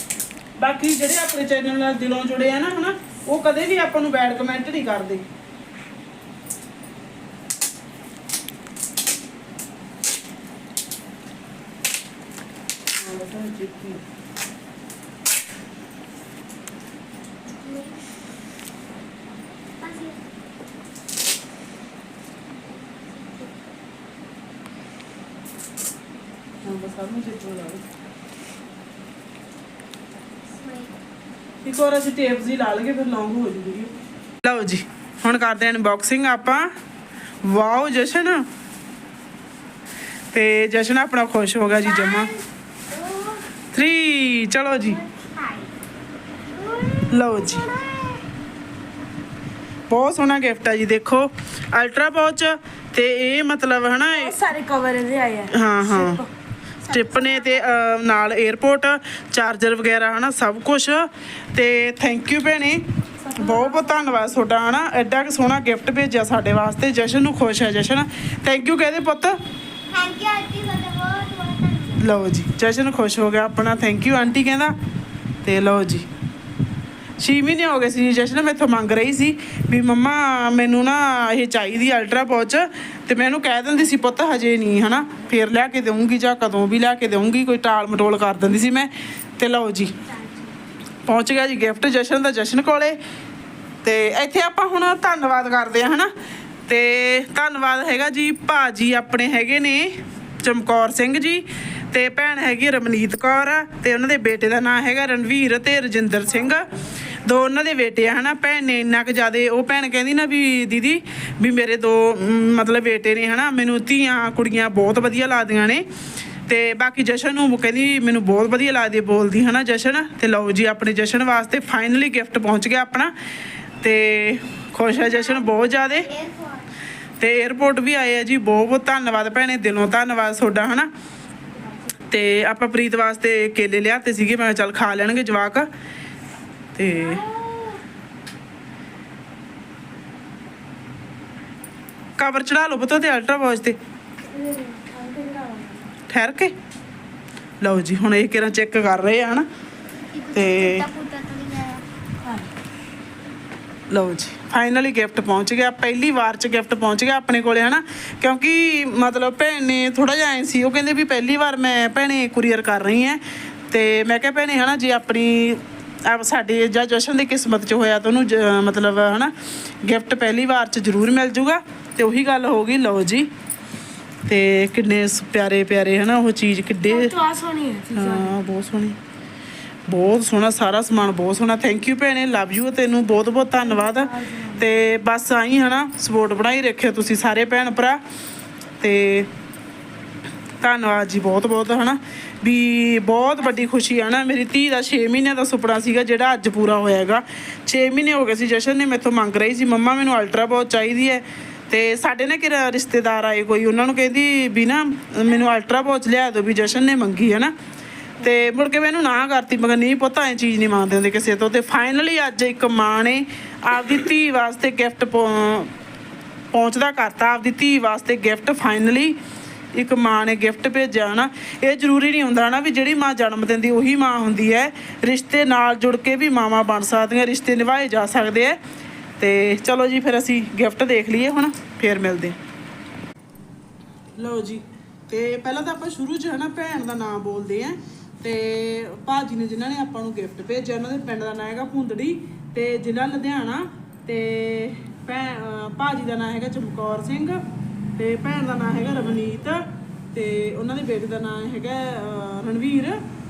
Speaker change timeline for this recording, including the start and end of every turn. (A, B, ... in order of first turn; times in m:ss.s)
0:00.6-0:05.3 A
0:13.0-0:14.0 A
0:17.6-0:18.0 B
0:19.8-0:20.2 B
0:22.7-0:23.5 B
0:26.6-0:27.8 A
0:30.4-0:30.9 B
0:31.6-0:36.7 A
0:37.4-0:38.5 A
0:40.3-0:42.3 A
0:41.8-0:43.4 B
0:43.7-0:45.0 A
0:44.9-0:45.7 B
0:46.5-0:48.2 B
0:47.1-0:47.6 A
0:49.9-0:54.4 A
0:54.1-0:56.3 C
0:55.5-0:56.2 A
0:56.9-1:09.4 A
1:03.2-1:04.0 C
1:09.9-1:12.1 B
1:12.0-1:14.7 A
1:15.4-1:16.1 A
1:17.2-1:29.9 A
1:31.0-1:33.0 A
1:33.8-1:36.1 A
1:36.7-1:55.8 A
1:56.5-2:03.1 A
2:03.8-2:06.1 A
2:05.0-2:06.7 B
2:07.2-2:10.9 A
2:12.1-2:15.7 A
2:16.7-2:17.3 A
2:17.0-2:17.8 B
2:22.2-2:23.8 A
2:24.2-2:25.9 C
2:26.1-2:26.5 A
2:27.6-2:29.5 A
2:30.1-2:31.8 B
2:30.3-2:30.9 A
2:32.2-2:32.5 C
2:33.9-2:53.3 A
2:54.3-2:57.2 A
2:56.9-2:58.3 C
2:57.9-2:59.0 A
2:59.9-3:08.0 A
3:03.6-3:04.6 C
3:08.8-3:09.3 A
3:10.6-3:27.5 A
3:28.2-3:35.7 A
3:36.5-3:39.2 A
3:39.7-3:48.6 A
3:49.2-3:52.4 A
3:54.2-4:07.4 A
4:08.0-4:13.0 A